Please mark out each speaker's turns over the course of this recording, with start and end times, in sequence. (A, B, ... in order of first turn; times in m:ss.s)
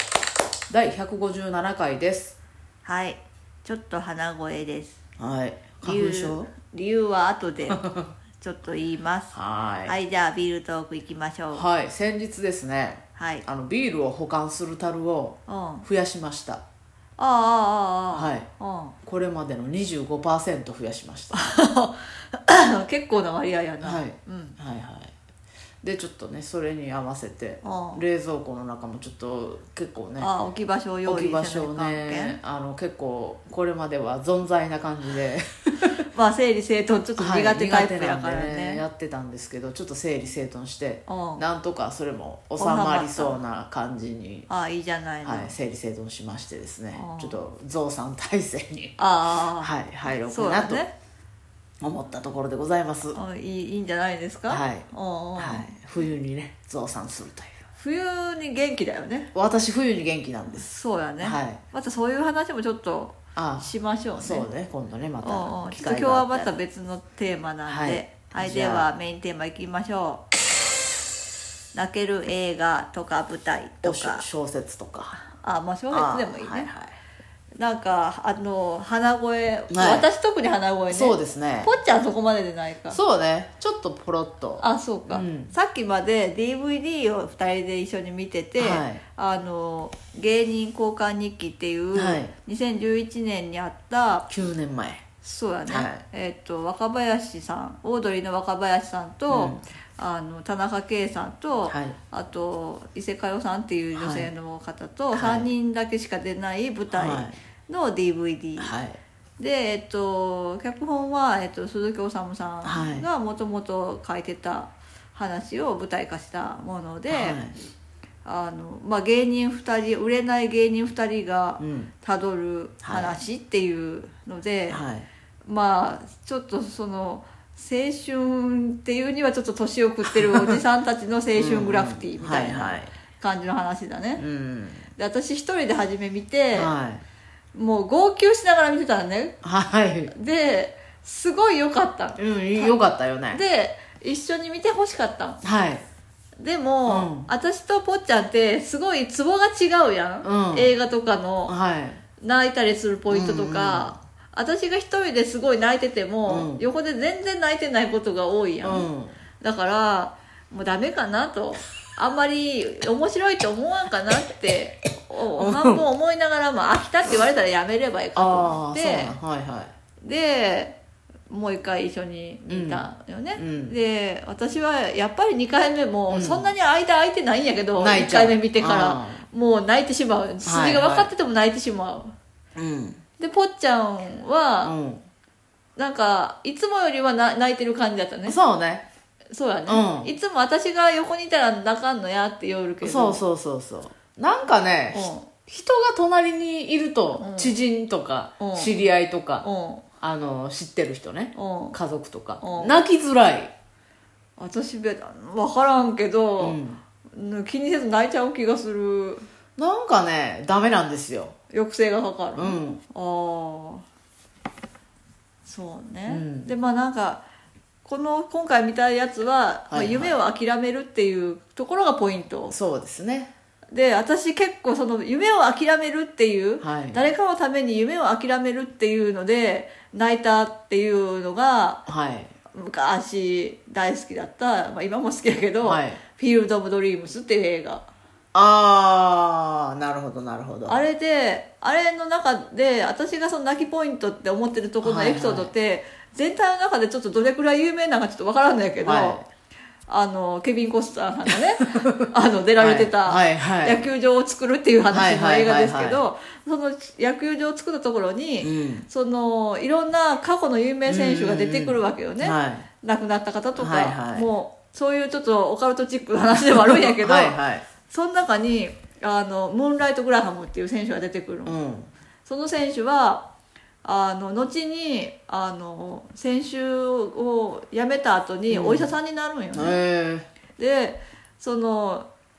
0:00.7-0:02.4 A
0:02.8-0:05.0 B
0:05.2-0:06.5 A
0:05.8-0:07.8 B
0:07.7-0:08.1 A
0:08.4-0:11.6 B
0:09.3-0:10.0 A
0:11.5-0:16.6 A
0:13.2-0:13.4 B
0:15.5-0:15.9 B
0:17.2-0:18.9 B
0:18.1-0:18.5 A
0:19.0-0:21.4 A
0:21.3-0:24.6 B
0:23.8-0:25.1 A
0:25.8-0:30.3 A
0:27.6-0:28.0 B
0:30.2-0:32.4 B
0:31.0-0:35.9 A
0:36.1-0:38.8 B
0:37.2-0:44.5 A
0:41.1-0:41.4 B
0:42.6-0:43.4 B
0:44.5-0:45.6 B
0:45.2-0:49.0 A
0:46.9-0:47.4 B
0:49.0-0:50.9 B
0:49.6-0:50.8 A
0:51.8-0:53.2 A
0:53.1-0:55.8 B
0:54.5-0:57.6 A
0:57.8-0:59.3 B
0:59.3-1:00.7 A
1:00.6-1:04.5 B
1:01.2-1:01.6 A
1:03.3-1:06.6 A
1:05.2-1:10.2 B
1:07.6-1:08.9 A
1:11.7-1:14.2 B
1:13.8-1:15.3 A
1:15.3-1:16.7 B
1:15.9-1:16.9 A
1:17.6-1:23.0 B
1:19.7-1:20.0 A
1:20.9-1:21.7 A
1:22.9-1:25.5 A
1:24.6-1:34.2 B
1:28.6-1:29.0 A
1:31.9-1:32.3 A
1:34.3-1:35.1 A
1:35.2-1:48.8 B
1:35.7-1:36.0 A
1:39.3-1:39.6 A
1:41.6-1:42.0 A
1:43.9-1:44.3 A
1:45.1-1:45.5 A
1:46.9-1:47.4 A
1:48.6-1:49.0 A
1:49.4-1:57.4 B
1:52.6-1:53.1 A
1:57.1-1:57.5 A
1:58.2-2:04.8 B
2:01.6-2:01.9 A
2:02.8-2:03.2 A
2:04.7-2:05.1 A
2:05.4-2:14.2 B
2:10.0-2:10.6 A
2:11.3-2:12.9 A
2:14.2-2:14.9 A
2:15.0-2:16.7 B
2:16.5-2:17.0 A
2:17.5-2:19.4 B
2:19.4-2:20.1 A
2:20.1-2:22.8 B
2:22.2-2:23.4 A
2:23.3-2:25.4 B
2:25.4-2:25.8 A
2:26.4-2:31.5 B
2:26.9-2:27.3 A
2:30.2-2:30.7 A
2:31.4-2:32.0 A
2:32.2-2:38.9 B
2:33.1-2:34.0 A
2:36.2-2:36.7 A
2:38.6-2:39.1 A
2:39.4-2:49.2 B
2:45.4-2:45.8 A
2:48.1-2:49.7 A
2:50.0-2:50.8 B
2:51.3-3:02.1 B
2:52.5-2:53.8 A
2:56.1-2:56.5 A
2:57.8-2:59.2 A
3:00.4-3:01.1 A
3:02.6-3:03.0 A
3:03.2-3:04.7 B
3:04.6-3:05.0 A
3:05.8-3:08.4 B
3:08.2-3:08.8 A
3:09.3-3:13.2 B
3:09.7-3:10.1 A
3:12.8-3:19.4 A
3:14.9-3:15.3 B
3:17.2-3:17.6 B
3:18.4-3:18.7 B
3:19.4-3:19.8 B
3:20.0-3:23.5 A
3:21.3-3:21.8 B
3:22.4-3:22.8 B
3:24.4-3:26.6 B
3:26.4-3:26.8 A
3:27.1-3:29.3 B
3:29.6-3:31.4 A
3:31.5-3:33.8 B
3:32.4-3:32.8 A
3:35.4-3:37.2 B
3:36.1-3:36.5 A
3:37.8-3:42.5 B
3:39.7-3:40.2 A
3:42.5-3:43.3 A
3:43.7-3:51.8 B
3:46.6-3:47.1 A
3:51.9-3:52.3 A
3:52.5-3:57.9 B
3:55.6-3:56.0 A
3:58.3-4:00.8 A
4:00.6-4:09.2 B
4:04.8-4:05.5 A
4:08.8-4:09.2 A
4:09.9-4:31.6 B
4:11.3-4:13.8 A
4:14.9-4:16.0 A
4:18.4-4:18.8 A
4:20.8-4:22.7 A
4:23.6-4:24.3 A
4:26.8-4:27.7 A
4:31.4-4:31.9 A
4:32.2-4:33.2 B
4:33.8-4:39.8 B
4:38.5-4:38.9 A
4:39.5-4:40.2 A
4:40.6-4:42.1 B